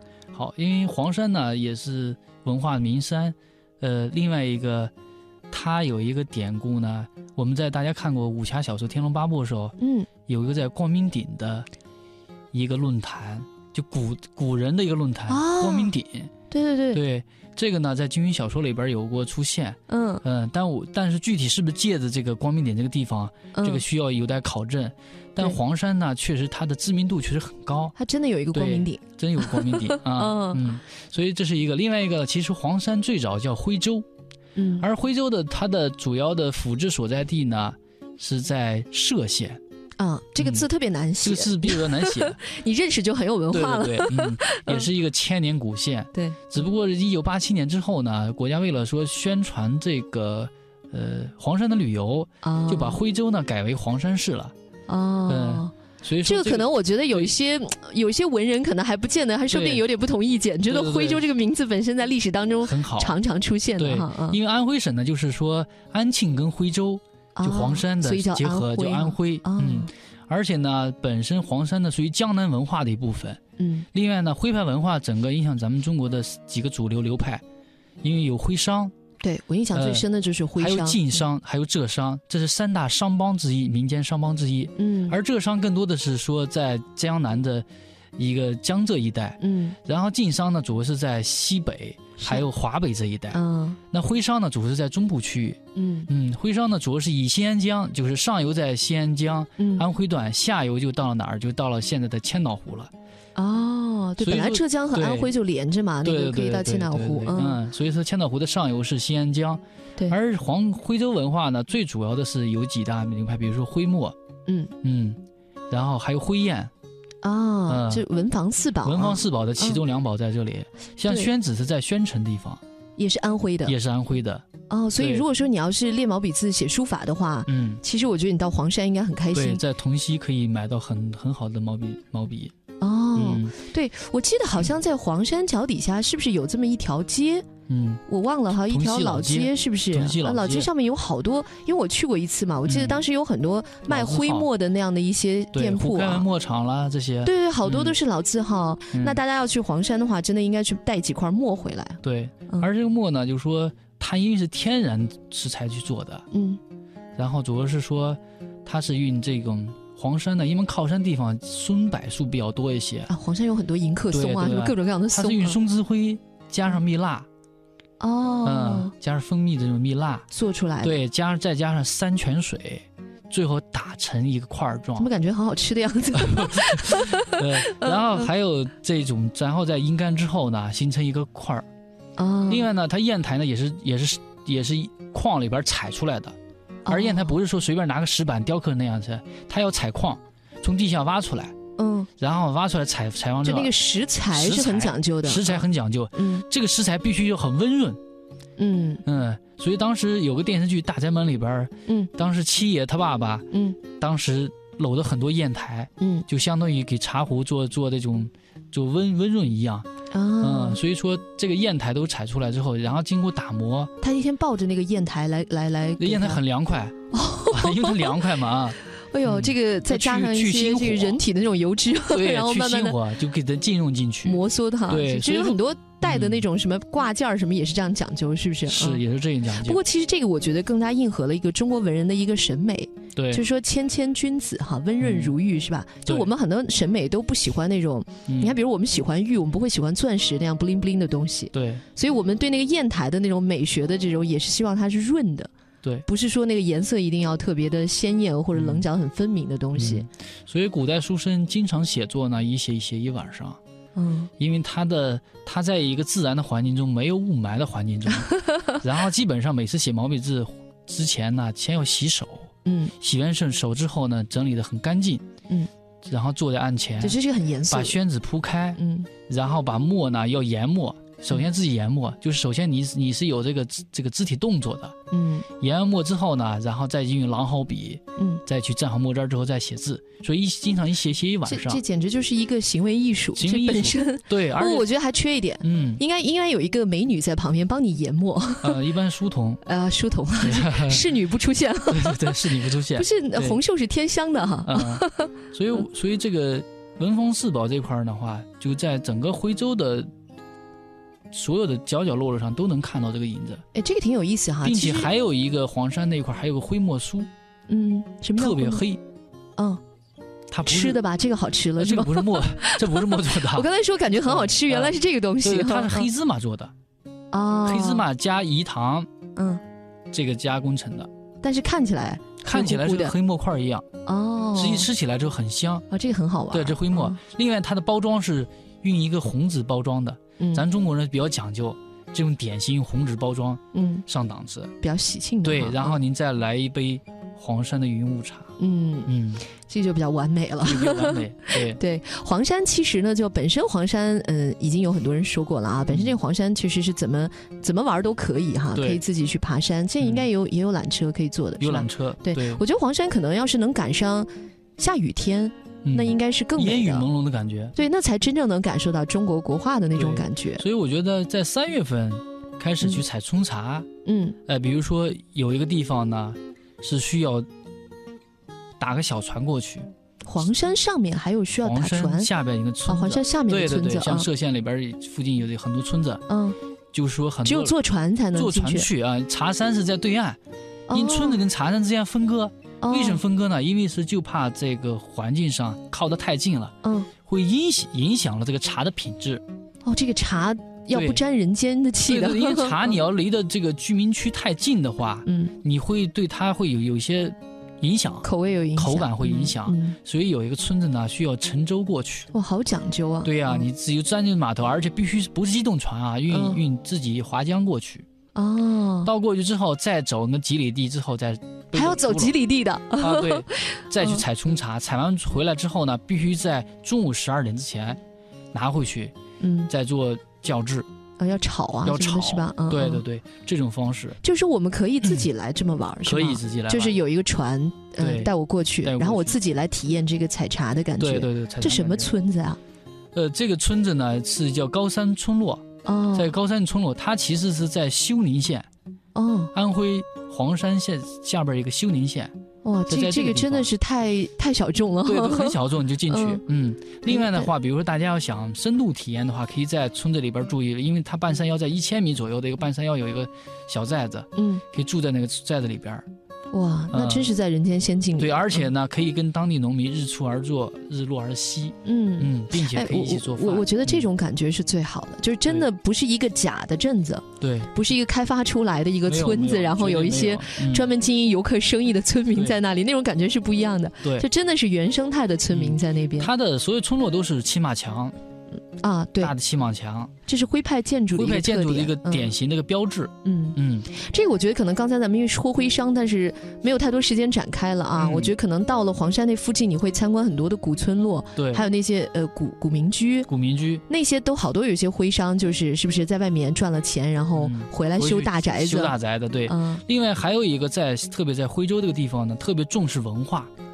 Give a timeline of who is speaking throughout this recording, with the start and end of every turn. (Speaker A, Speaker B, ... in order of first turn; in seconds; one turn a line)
Speaker A: 0.3-4.9
Speaker A: 5.5-9.8
Speaker B: 9.8-10.1
Speaker A: 10.3-11.7
Speaker A: 12.5-16.3
Speaker B: 15.3-15.9
Speaker B: 16.5-17.0
Speaker A: 16.9-28.0
Speaker B: 19.9-20.2
Speaker B: 23.5-23.8
Speaker B: 28.0-30.6
Speaker A: 28.5-34.1
Speaker B: 34.6-34.9
Speaker A: 34.8-39.6
Speaker B: 40.0-44.9
Speaker A: 40.4-40.7
Speaker A: 41.2-42.4
Speaker A: 43.5-54.5
Speaker B: 46.1-46.4
Speaker B: 52.4-53.0
Speaker B: 54.9-64.4
Speaker A: 55.3-57.3
Speaker A: 59.5-59.9
Speaker A: 60.7-61.3
Speaker A: 62.6-63.2
Speaker A: 63.8-73.4
Speaker B: 67.4-69.9
Speaker B: 73.6-73.9
Speaker A: 73.9-77.4
Speaker A: 78.0-78.9
Speaker B: 79.2-81.2
Speaker A: 79.7-102.9
Speaker B: 84.8-85.2
Speaker B: 89.4-89.8
Speaker B: 92.2-92.5
Speaker B: 93.3-93.8
Speaker B: 95.8-96.1
Speaker B: 99.6-99.9
Speaker B: 103.4-107.6
Speaker A: 104.2-105.3
Speaker A: 106.0-114.2
Speaker B: 114.5-114.7
Speaker A: 114.8-116.7
Speaker B: 117.2-119.8
Speaker A: 117.7-118.1
Speaker A: 118.8-122.6
Speaker B: 123.0-123.8
Speaker A: 123.7-124.5
Speaker B: 124.7-129.6
Speaker A: 125.0-125.2
Speaker A: 127.5-127.8
Speaker A: 129.3-132.5
Speaker B: 132.8-137.5
Speaker A: 133.2-133.6
Speaker A: 137.7-140.7
Speaker B: 138.1-146.3
Speaker A: 142.7-143.0
Speaker A: 143.9-144.5
Speaker A: 145.5-148.0
Speaker B: 147.2-152.7
Speaker A: 148.9-149.2
Speaker A: 152.0-156.3
Speaker B: 156.3-156.6
Speaker A: 157.2-163.1
Speaker B: 163.1-165.6
Speaker A: 164.1-167.3
Speaker B: 168.0-168.9
Speaker A: 168.4-170.3
Speaker B: 170.3-170.9
Speaker A: 170.8-175.1
Speaker B: 175.0-178.3
Speaker A: 176.2-181.7
Speaker B: 182.2-182.7
Speaker A: 182.5-186.4
Speaker B: 186.9-187.3
Speaker A: 186.9-191.5
Speaker B: 191.8-192.1
Speaker A: 192.2-193.7
Speaker B: 193.4-196.4
Speaker A: 194.3-198.0
Speaker B: 198.6-199.0
Speaker A: 199.1-209.9
Speaker B: 203.5-203.8
Speaker B: 206.0-206.3
Speaker B: 210.1-210.8
Speaker A: 210.4-213.9
Speaker B: 214.0-216.4
Speaker A: 216.0-221.2
Speaker B: 217.1-218.2
Speaker B: 219.0-223.0
Speaker A: 222.1-226.5
Speaker B: 224.2-229.0
Speaker A: 228.7-229.8
Speaker B: 229.6-245.5
Speaker A: 233.2-233.4
Speaker A: 235.0-235.4
Speaker A: 238.3-238.6
Speaker A: 241.5-241.8
Speaker B: 246.1-250.1
Speaker A: 248.5-248.9
Speaker A: 249.8-253.6
Speaker B: 254.0-254.3
Speaker A: 254.4-265.2
Speaker B: 258.4-258.8
Speaker B: 262.6-262.9
Speaker A: 266.0-274.9
Speaker B: 267.0-268.0
Speaker B: 268.8-269.1
Speaker B: 275.1-275.5
Speaker A: 275.6-281.8
Speaker B: 278.2-278.4
Speaker B: 281.5-288.8
Speaker A: 283.4-284.9
Speaker A: 285.6-286.0
Speaker A: 288.6-289.6
Speaker B: 289.6-295.3
Speaker A: 290.4-291.2
Speaker A: 291.9-293.6
Speaker A: 294.6-300.1
Speaker A: 301.3-303.6
Speaker B: 303.7-305.1
Speaker A: 304.6-307.3
Speaker B: 307.7-308.8
Speaker A: 308.4-309.0
Speaker B: 309.6-309.8
Speaker A: 310.5-311.0
Speaker B: 310.6-316.1
Speaker A: 311.8-316.7
Speaker B: 317.3-318.1
Speaker A: 317.6-319.1
Speaker B: 319.4-319.6
Speaker A: 320.1-321.1
Speaker B: 321.4-323.1
Speaker A: 322.4-323.9
Speaker B: 324.1-324.9
Speaker A: 324.6-325.9
Speaker B: 325.9-327.2
Speaker A: 326.5-334.7
Speaker B: 330.4-330.6
Speaker B: 333.7-334.1
Speaker B: 334.8-336.0
Speaker A: 335.4-338.5
Speaker B: 338.6-357.1
Speaker A: 339.1-339.4
Speaker A: 340.6-341.8
Speaker A: 345.9-346.1
Speaker A: 348.7-349.0
Speaker A: 350.0-350.3
Speaker A: 351.6-352.6
Speaker A: 355.8-357.8
Speaker B: 357.8-360.6
Speaker A: 360.0-363.9
Speaker B: 364.1-364.4
Speaker A: 364.5-367.5
Speaker A: 368.8-369.9
Speaker B: 370.3-372.3
Speaker A: 371.6-376.2
Speaker B: 372.9-374.3
Speaker B: 376.3-376.6
Speaker A: 376.9-377.8
Speaker B: 377.4-378.9
Speaker A: 378.3-380.4
Speaker B: 380.9-381.4
Speaker A: 380.9-386.7
Speaker B: 382.8-383.2
Speaker B: 386.8-387.1
Speaker A: 387.3-389.4
Speaker B: 389.9-393.0
Speaker A: 390.9-391.2
Speaker A: 392.1-402.3
Speaker B: 395.3-395.6
Speaker B: 398.2-400.0
Speaker B: 402.3-403.7
Speaker A: 403.2-408.1
Speaker B: 406.3-406.6
Speaker B: 408.4-409.1
Speaker A: 409.1-412.4
Speaker B: 411.7-414.2
Speaker A: 413.0-418.0
Speaker A: 418.5-419.1
Speaker B: 419.4-419.7
Speaker A: 419.7-420.9
Speaker B: 421.2-423.0
Speaker A: 421.9-424.2
Speaker B: 424.2-432.6
Speaker A: 425.0-425.3
Speaker A: 426.0-427.0
Speaker A: 428.0-429.4
Speaker A: 431.0-432.1
Speaker A: 433.1-438.7
Speaker B: 435.9-436.3
Speaker B: 439.1-439.5
Speaker A: 439.5-442.3
Speaker B: 442.6-446.4
Speaker A: 442.9-443.7
Speaker A: 445.1-456.1
Speaker B: 447.1-447.5
Speaker B: 454.4-454.6
Speaker B: 456.5-458.7
Speaker A: 456.9-457.3
Speaker A: 458.2-464.1
Speaker B: 461.9-476.3
Speaker A: 467.4-467.7
Speaker A: 469.1-470.9
Speaker A: 472.3-472.6
Speaker A: 475.5-478.1
Speaker B: 478.8-479.3
Speaker A: 479.2-480.1
Speaker B: 480.3-482.3
Speaker A: 481.1-483.9
Speaker B: 483.2-493.3
Speaker A: 488.0-488.4
Speaker A: 491.4-491.6
Speaker A: 493.3-493.8
Speaker B: 493.9-498.9
Speaker A: 497.4-503.5
Speaker B: 499.5-499.8